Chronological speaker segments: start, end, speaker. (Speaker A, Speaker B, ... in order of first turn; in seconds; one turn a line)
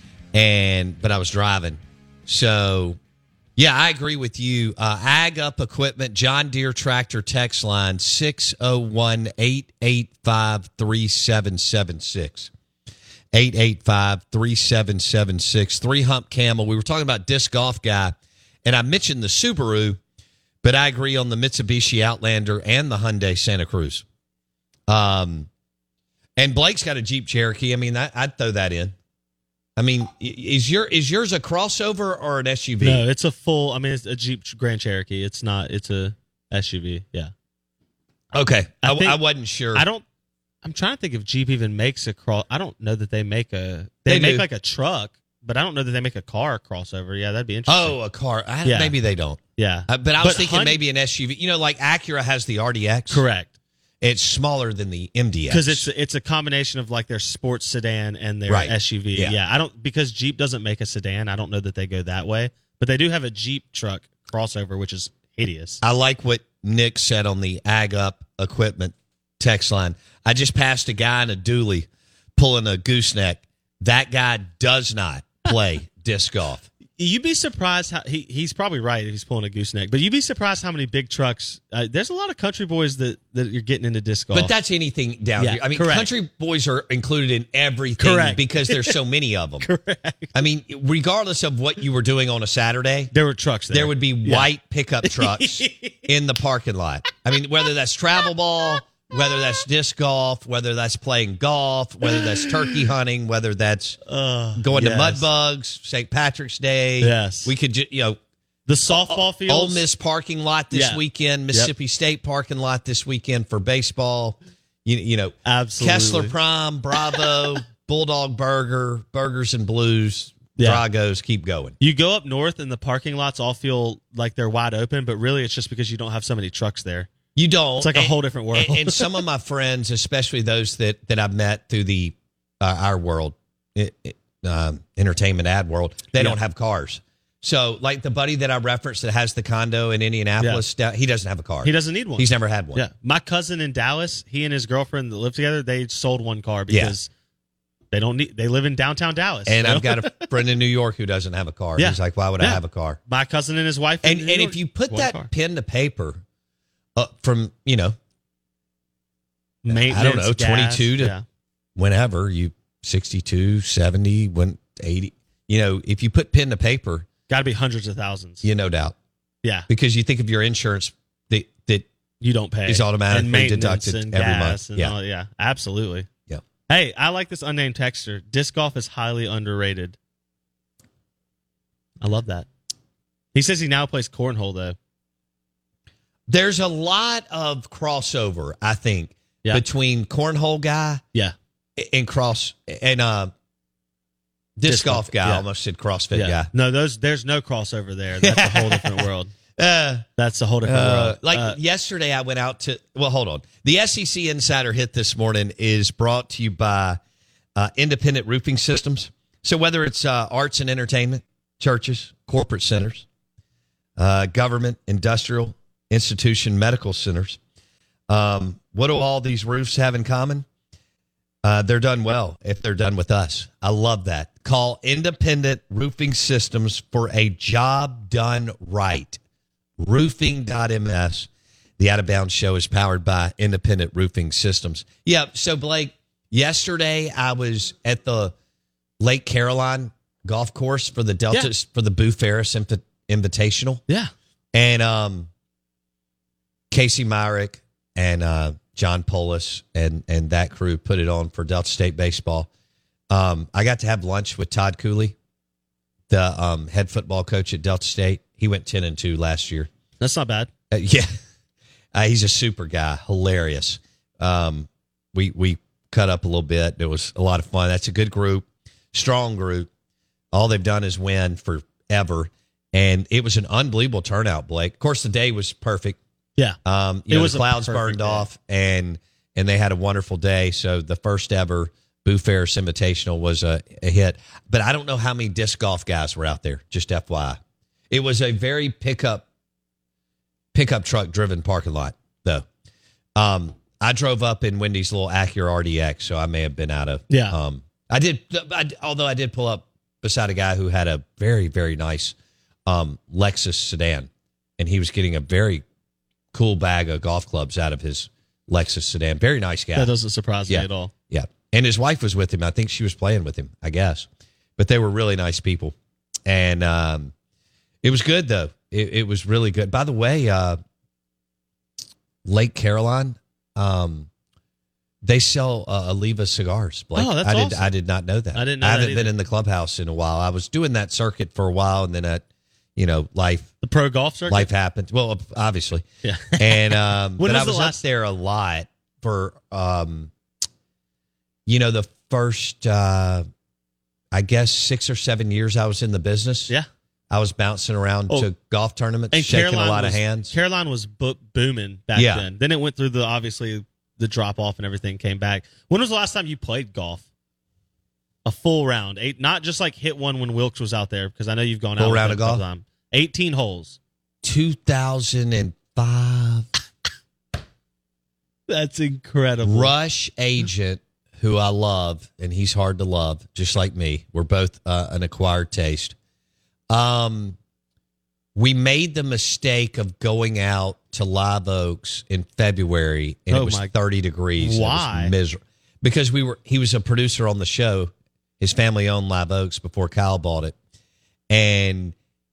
Speaker A: 0.3-3.0
Speaker A: 3.5-12.5
Speaker A: 13.3-20.0
Speaker A: 20.6-24.0
Speaker A: 24.9-25.5
Speaker A: 26.4-28.9
Speaker A: 29.8-33.0
Speaker B: 32.8-37.3
Speaker A: 38.3-39.9
Speaker B: 38.8-39.2
Speaker B: 39.7-40.0
Speaker B: 40.6-48.0
Speaker A: 44.1-44.5
Speaker A: 47.7-53.2
Speaker B: 48.6-49.0
Speaker B: 49.6-50.8
Speaker B: 53.1-53.5
Speaker A: 54.0-55.9
Speaker B: 55.5-65.8
Speaker A: 58.5-59.4
Speaker A: 65.8-76.7
Speaker B: 77.0-84.5
Speaker A: 84.3-89.7
Speaker B: 85.4-86.1
Speaker B: 88.0-89.0
Speaker B: 89.6-90.3
Speaker A: 90.3-93.1
Speaker B: 93.1-94.5
Speaker A: 93.7-104.0
Speaker B: 95.0-96.1
Speaker B: 102.1-102.8
Speaker B: 104.1-105.2
Speaker A: 104.6-108.2
Speaker B: 107.0-107.5
Speaker B: 108.7-109.8
Speaker A: 108.9-121.8
Speaker B: 110.7-111.7
Speaker B: 115.5-116.3
Speaker B: 120.6-120.8
Speaker B: 121.8-127.1
Speaker A: 127.3-142.8
Speaker B: 127.8-129.1
Speaker B: 140.4-140.6
Speaker B: 141.6-147.1
Speaker A: 146.7-146.9
Speaker B: 147.9-150.3
Speaker A: 149.5-153.0
Speaker B: 151.8-155.3
Speaker A: 154.0-156.2
Speaker A: 156.9-158.0
Speaker B: 159.6-161.2
Speaker A: 159.7-161.1
Speaker A: 161.8-167.1
Speaker B: 167.3-168.4
Speaker A: 168.4-168.9
Speaker A: 169.7-171.9
Speaker B: 172.2-176.1
Speaker A: 172.7-174.9
Speaker B: 176.7-180.0
Speaker B: 182.0-182.5
Speaker B: 183.3-184.8
Speaker A: 186.3-191.0
Speaker A: 191.8-193.3
Speaker A: 194.6-196.5
Speaker B: 194.7-195.4
Speaker B: 196.1-199.3
Speaker A: 198.2-200.1
Speaker B: 200.2-201.6
Speaker A: 200.6-207.0
Speaker A: 207.6-213.1
Speaker A: 214.0-217.4
Speaker A: 218.1-220.5
Speaker A: 221.4-229.2
Speaker A: 229.8-238.3
Speaker A: 239.0-243.8
Speaker A: 244.5-245.3
Speaker A: 246.7-252.5
Speaker A: 253.1-255.2
Speaker A: 256.1-259.7
Speaker B: 260.0-260.5
Speaker A: 260.7-261.1
Speaker A: 261.9-269.7
Speaker A: 270.3-276.0
Speaker A: 276.6-289.2
Speaker B: 277.1-278.2
Speaker A: 290.5-292.4
Speaker A: 293.1-302.1
Speaker B: 297.1-297.4
Speaker A: 302.7-305.6
Speaker A: 306.3-309.9
Speaker B: 309.7-310.9
Speaker A: 310.5-315.7
Speaker A: 316.2-317.1
Speaker A: 317.8-320.6
Speaker A: 322.2-324.1
Speaker A: 325.0-332.2
Speaker B: 326.9-327.7
Speaker B: 328.3-329.1
Speaker A: 332.8-333.5
Speaker B: 333.6-334.5
Speaker A: 334.3-340.1
Speaker B: 336.0-337.8
Speaker A: 341.5-343.3
Speaker A: 344.1-346.5
Speaker A: 347.1-350.3
Speaker B: 349.1-357.0
Speaker A: 351.9-352.2
Speaker B: 358.2-363.8
Speaker A: 361.8-362.4
Speaker A: 364.2-366.5
Speaker B: 368.5-369.7
Speaker A: 369.4-375.9
Speaker A: 376.7-377.4
Speaker A: 378.3-390.5
Speaker B: 383.3-383.7
Speaker B: 384.4-385.1
Speaker A: 391.3-391.9